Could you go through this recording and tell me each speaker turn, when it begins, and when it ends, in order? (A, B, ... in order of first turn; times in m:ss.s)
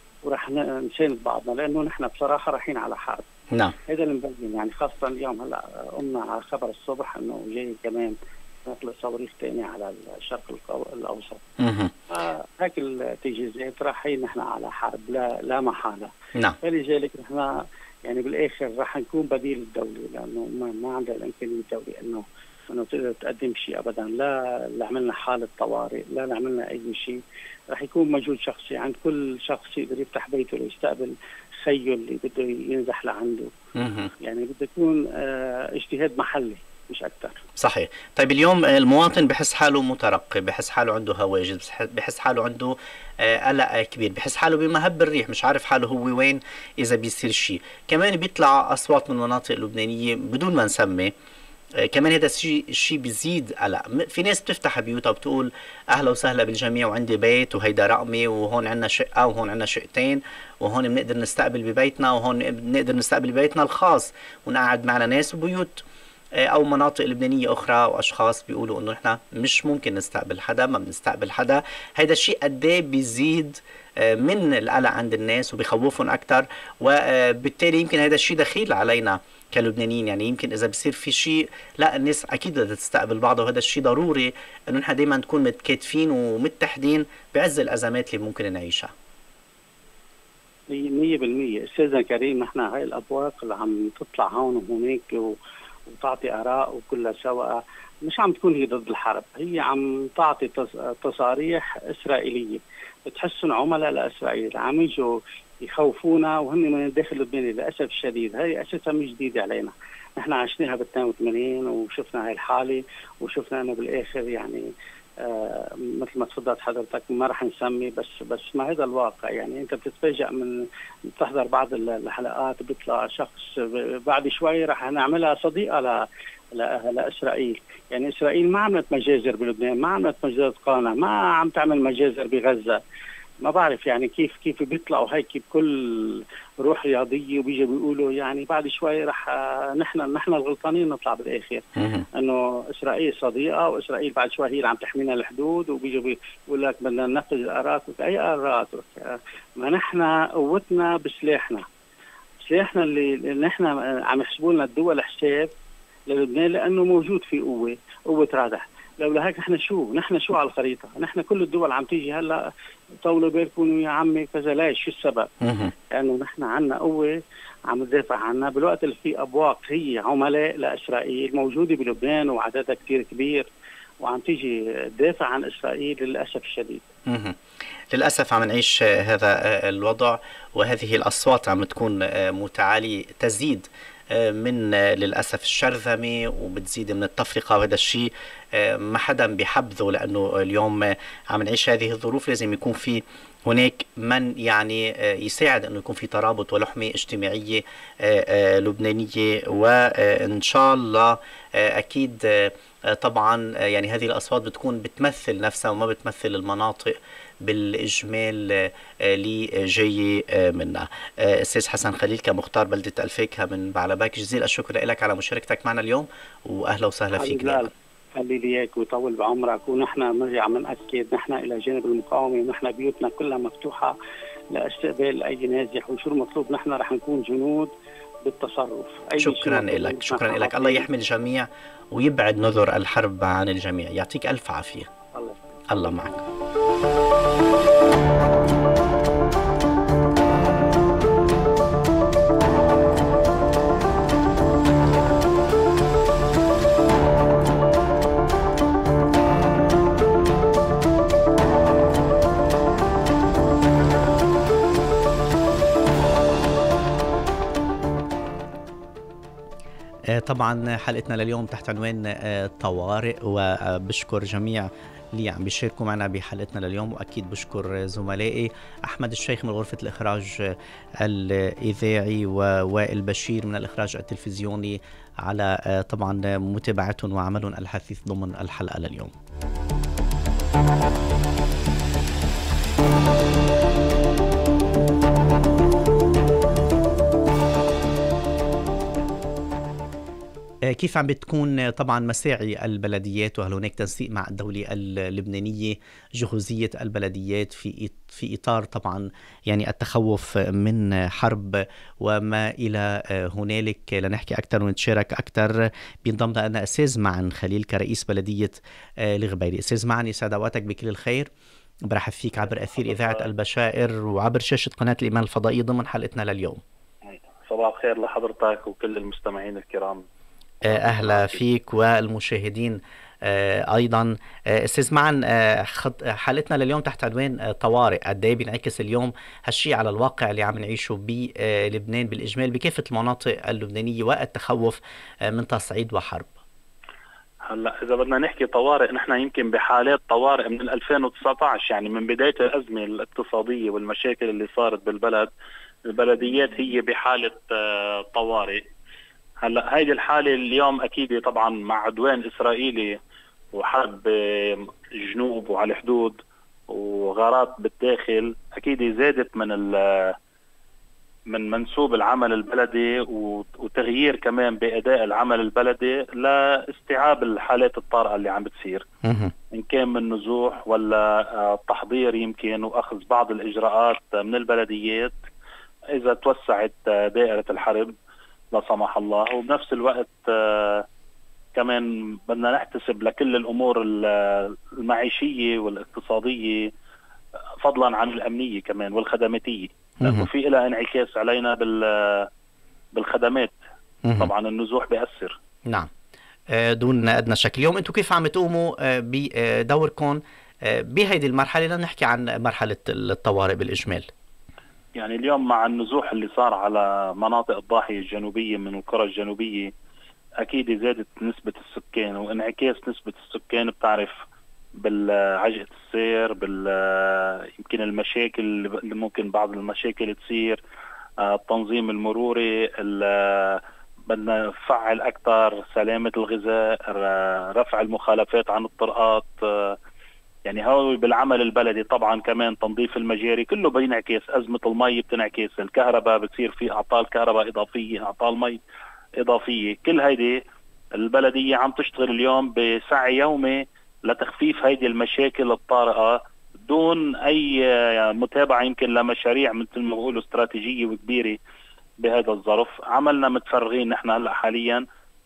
0:00.2-0:03.2 A
0:03.8-0:11.4 A
0:11.6-0:11.9 B
0:12.1-0:17.5 A
0:18.0-0:27.2 A
0:27.7-0:33.5 A
0:33.7-0:34.1 B
0:34.2-0:37.4 A
0:37.6-0:51.1 B
0:51.8-1:05.8 B
1:06.4-1:28.9 B
1:30.7-1:35.4 A
1:35.9-1:54.6 A
1:55.2-2:12.8 A
2:13.4-2:31.6 A
2:21.8-2:22.0 B
2:32.4-2:35.5 A
2:36.1-2:42.4 A
2:43.0-2:45.3 A
2:45.4-2:45.7 B
2:45.9-2:47.1 A
2:47.7-2:53.5 A
2:54.0-2:56.9 A
2:57.1-2:57.4 B
2:57.9-3:37.7 B
3:37.1-3:43.9 A
3:44.5-3:47.7 A
3:48.2-3:50.9 A
3:49.2-3:54.9 B
3:55.1-3:56.2 A
3:55.7-3:56.2 B
4:20.1-4:39.1 B
4:50.6-5:11.3 B
5:11.9-5:16.6 B
5:12.8-5:13.2 C
5:17.1-5:20.0 C
5:20.6-5:21.4 C
5:20.6-5:36.3 B
5:37.4-5:45.3 C
5:45.9-5:48.6 C
5:49.4-5:53.0 C
5:53.5-6:00.1 C
6:01.3-6:08.8 C
6:09.0-6:09.3 B
6:09.5-6:15.2 C
6:15.9-6:17.9 C
6:18.5-6:20.8 C
6:21.5-6:26.7 C
6:27.6-6:32.3 C
6:32.9-6:33.5 C
6:34.0-6:34.3 B
6:34.2-6:35.4 C
6:36.5-6:44.1 B
6:45.0-6:49.7 C
6:50.4-6:54.2 C
6:54.7-7:00.6 C
7:01.2-7:09.8 C
7:10.4-7:18.6 C
7:19.2-7:20.4 C
7:21.0-7:31.4 C
7:32.0-7:34.8 C